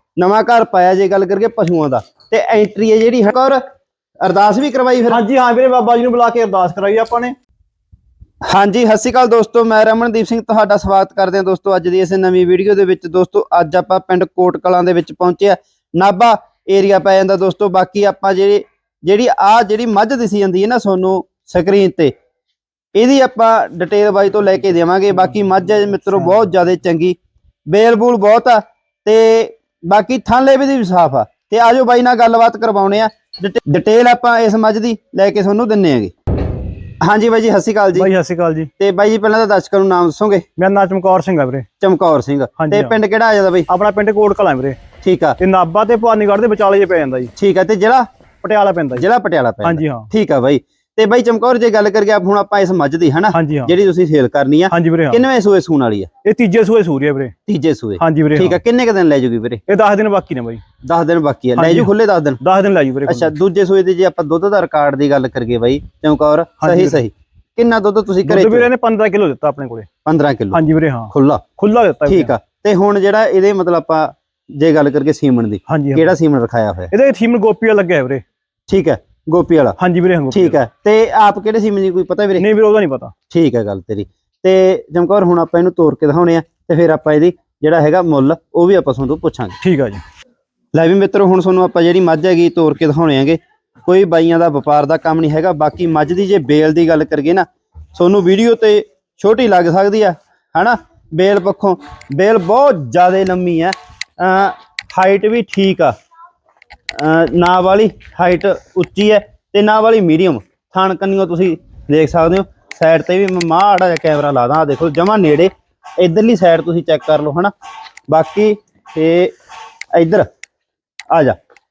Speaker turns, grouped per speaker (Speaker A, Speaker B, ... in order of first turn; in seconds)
Speaker A: 0.2-3.6, 4.2-5.2, 8.4-22.1, 22.9-27.2, 27.7-36.1, 37.0-38.1, 38.8-40.4, 41.8-43.7, 45.0-45.4, 47.4-48.1, 49.0-56.1, 57.5-59.6, 60.8-62.4, 63.1-68.7, 70.0-70.6, 71.1-71.4, 72.1-76.9, 78.7-79.8, 80.3-82.5, 83.3-89.6, 90.7-105.9, 106.9-117.5, 118.1-119.3, 119.9-120.3, 121.1-121.3
Speaker B: 5.1-7.3, 37.9-38.7, 40.6-41.6, 42.6-43.0, 43.7-44.8, 45.4-47.3, 48.4-49.0, 49.6-50.1, 53.3-53.7, 54.7-55.2, 56.2-57.3, 58.0-58.6, 59.7-60.6, 61.5-63.3, 66.6-67.0, 68.2-69.9, 70.5-72.3, 75.7-76.1, 76.9-78.2, 79.8-80.6, 82.4-83.1, 89.6-90.0